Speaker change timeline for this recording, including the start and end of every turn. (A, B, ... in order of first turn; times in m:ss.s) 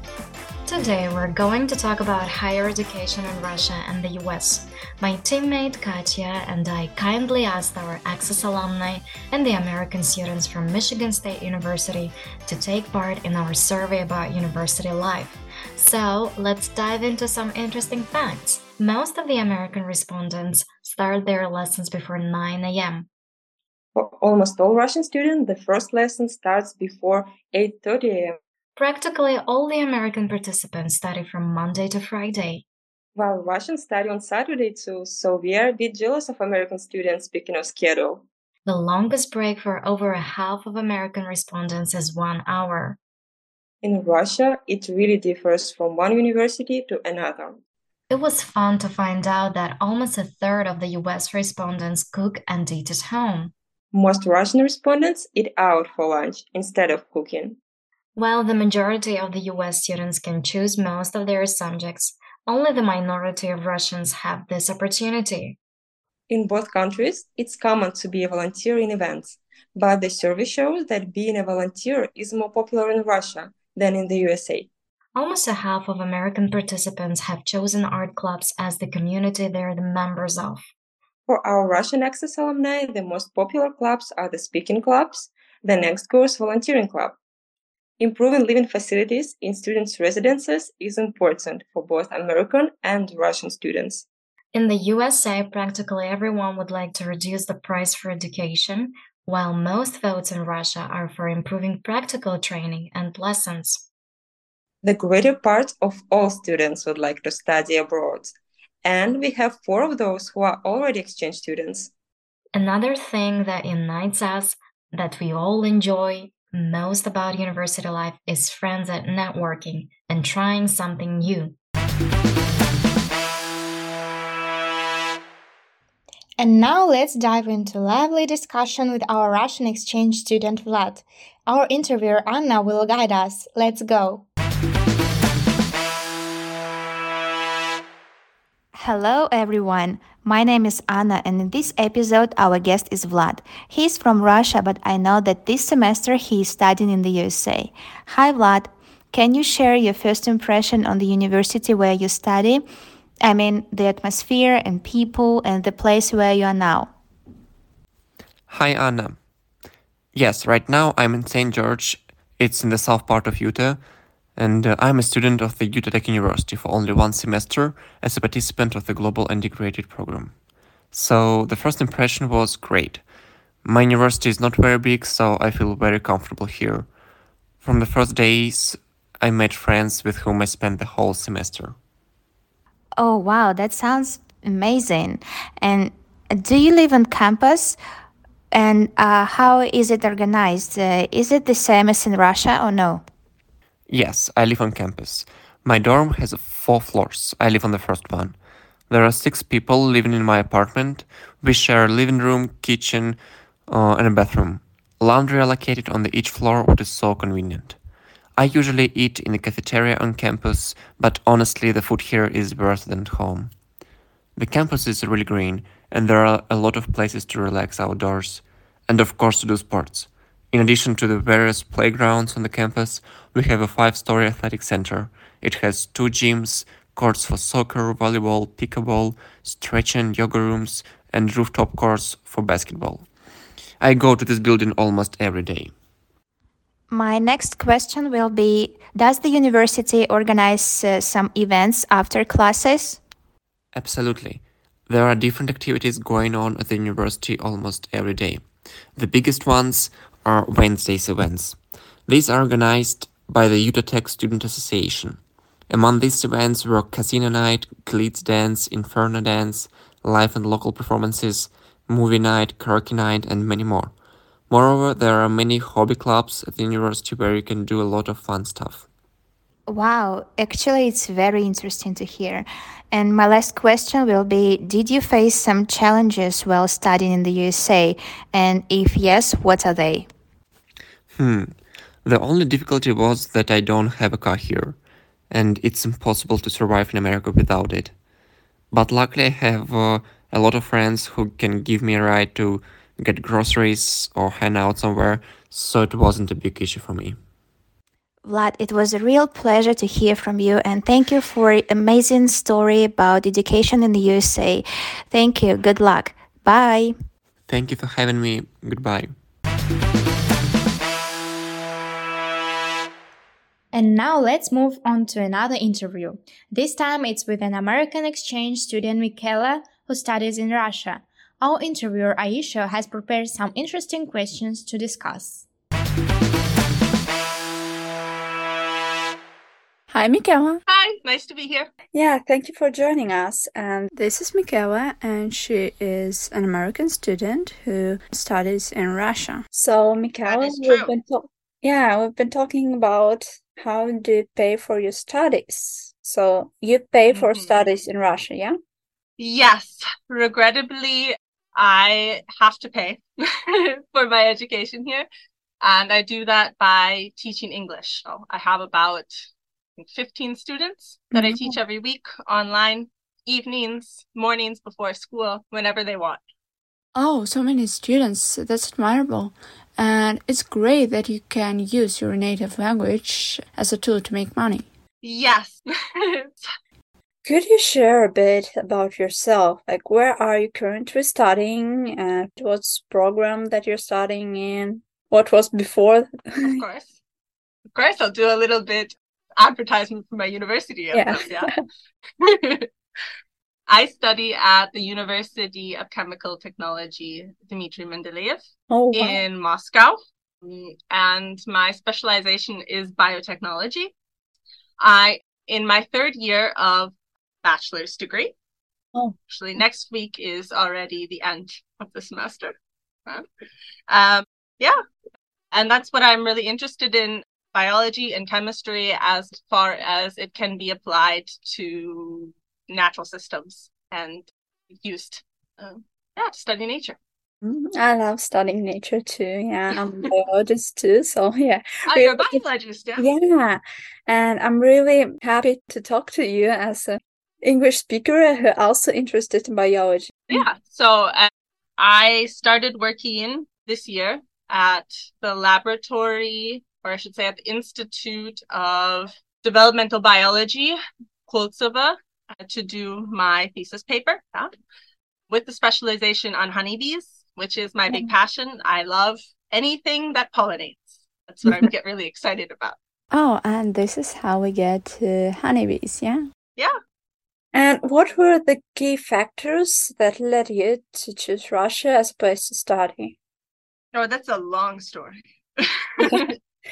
0:00.6-0:23.1 A
0:24.0-0:28.4 B
0:28.8-0:32.6 A
0:33.2-0:38.3 B
0:38.7-0:43.0 A
0:43.8-0:47.6 B
0:48.1-0:53.5 A
0:53.9-0:57.6 B
0:58.2-1:05.6 A
1:06.3-1:14.7 B
1:15.2-1:20.7 A
1:21.3-1:27.2 B
1:28.0-1:34.1 B
1:34.5-1:43.9 A
1:44.8-1:51.9 B
1:52.5-2:01.6 A
2:06.4-2:14.3 C
2:18.7-2:32.6 D
2:33.2-2:36.9 D
2:38.5-2:39.2 E
2:40.1-2:53.1 E
2:53.6-2:56.9 E
2:57.6-3:01.8 E
3:03.0-3:07.8 D
3:08.5-3:13.0 D
3:13.9-3:27.8 E
3:28.4-3:33.6 E
3:34.4-3:53.1 E
3:53.8-3:55.8 E
3:56.9-4:03.0 D
4:03.7-4:23.9 E
4:24.5-4:28.9 E
4:29.7-4:40.1 D
4:41.1-4:44.8 E
4:45.3-4:48.0 E
4:48.7-4:57.2 E
4:58.2-5:07.0 D
5:07.5-5:09.2 E
5:13.7-5:25.5 C
5:29.9-5:30.6 F
5:30.7-5:31.7 G
5:31.9-5:48.6 F
5:40.2-5:40.9 G
5:47.1-5:47.7 G
5:49.2-5:55.1 G
5:55.6-5:59.3 G
5:59.8-6:06.2 G
6:01.1-6:01.6 F
6:07.0-6:14.7 F
6:15.0-6:16.5 G
6:17.2-6:26.6 F
6:26.4-6:27.0 G
6:27.7-6:31.5 G
6:30.9-6:31.6 F
6:32.2-6:32.7 G
6:33.7-6:43.9 G
6:38.7-6:39.2 F
6:44.8-6:48.3 G
6:49.3-6:52.5 G
6:53.9-6:54.8 G
6:55.5-7:07.0 G
7:07.4-7:12.4 F
7:11.9-7:13.1 G
7:13.0-7:20.4 F
7:20.3-7:34.5 G
7:35.3-7:42.8 G
7:43.1-7:46.3 F
7:47.5-7:53.2 F
7:53.9-7:56.4 G
7:56.0-7:56.3 F